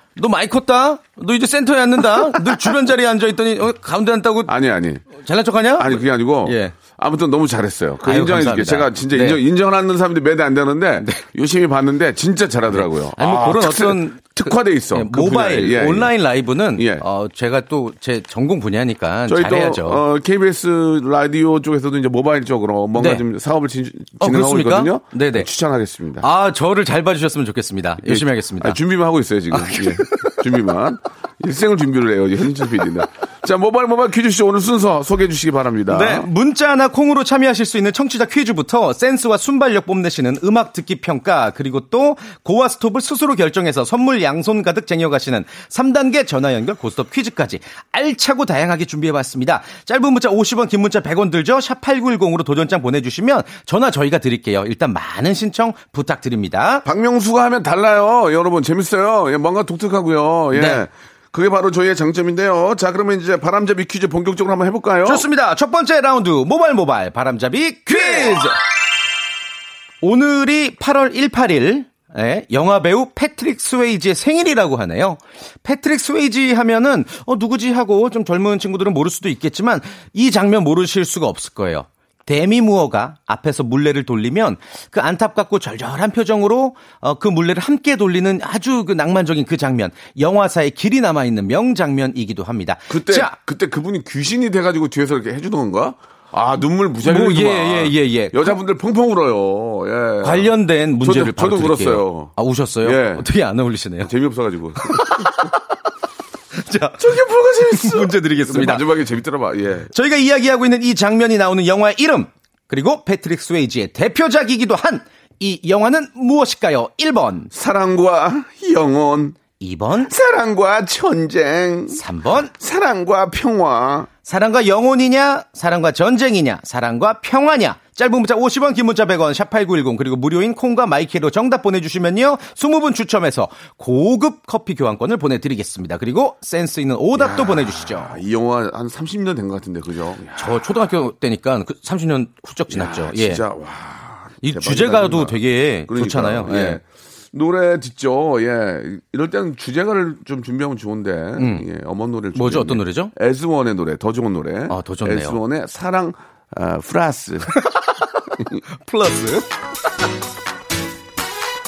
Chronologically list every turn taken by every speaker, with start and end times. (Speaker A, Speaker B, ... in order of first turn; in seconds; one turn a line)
Speaker A: 0.2-4.5
Speaker B: 4.5-5.1
Speaker A: 5.2-6.8
Speaker B: 5.8-16.1
Speaker A: 8.1-9.4
Speaker A: 12.7-20.0
Speaker B: 16.8-17.0
Speaker B: 19.3-26.3
Speaker A: 23.0-23.2
Speaker A: 24.2-25.5
Speaker A: 26.2-28.8
Speaker B: 28.0-36.3
Speaker A: 29.5-30.4
Speaker A: 35.9-56.9
Speaker B: 56.9-65.3
Speaker A: 60.5-60.8
Speaker A: 65.0-68.5
Speaker B: 67.9-68.5
Speaker A: 70.0-93.3
Speaker B: 92.9-103.3
Speaker A: 97.0-98.6
Speaker A: 100.2-104.1
Speaker B: 104.0-105.3
Speaker A: 104.9-105.6
Speaker A: 106.5-107.1
Speaker B: 107.0-109.9
Speaker A: 107.7-108.8
Speaker A: 109.9-117.5
Speaker B: 117.5-119.4
Speaker A: 119.6-120.1
Speaker B: 120.0-124.1
Speaker A: 121.9-122.5
Speaker A: 124.2-138.2
Speaker B: 137.2-140.7
Speaker A: 140.4-143.4
Speaker B: 142.7-157.5
Speaker A: 144.4-146.8
Speaker A: 151.4-151.7
Speaker A: 152.3-153.1
Speaker A: 154.7-155.4
Speaker A: 158.7-159.5